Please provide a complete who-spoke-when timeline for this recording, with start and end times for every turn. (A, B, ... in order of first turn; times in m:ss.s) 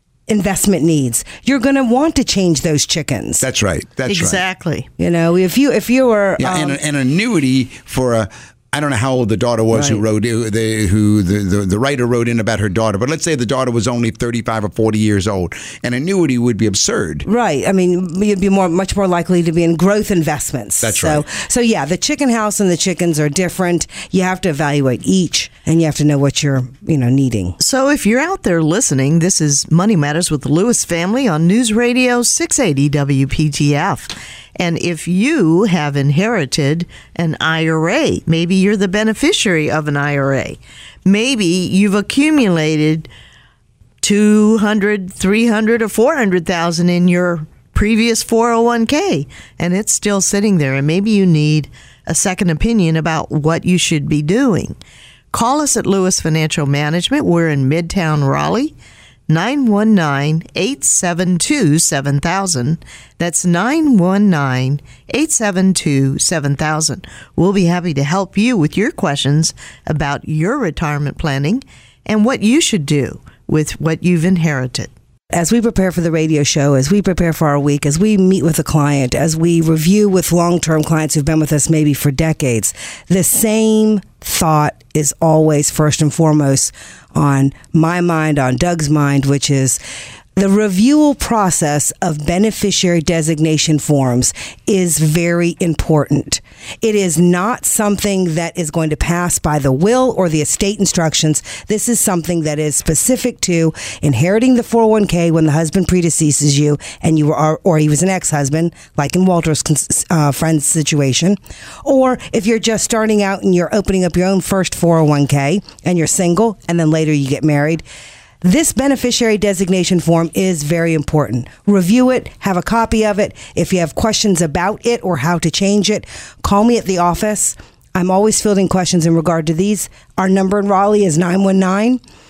0:00.3-0:03.5 A
0:03.4-0:04.4 B
0:04.1-0:04.9 C
0:05.0-0:06.8 A
0:06.4-0:17.3 B
0:17.3-0:27.6 A
0:20.8-0:21.3 B
0:27.6-0:43.1 C
0:44.0-0:54.8 C
0:55.3-0:58.7 C
0:59.3-1:14.9 C
1:15.3-1:29.8 A
1:30.4-1:57.8 A
1:58.4-2:12.0 A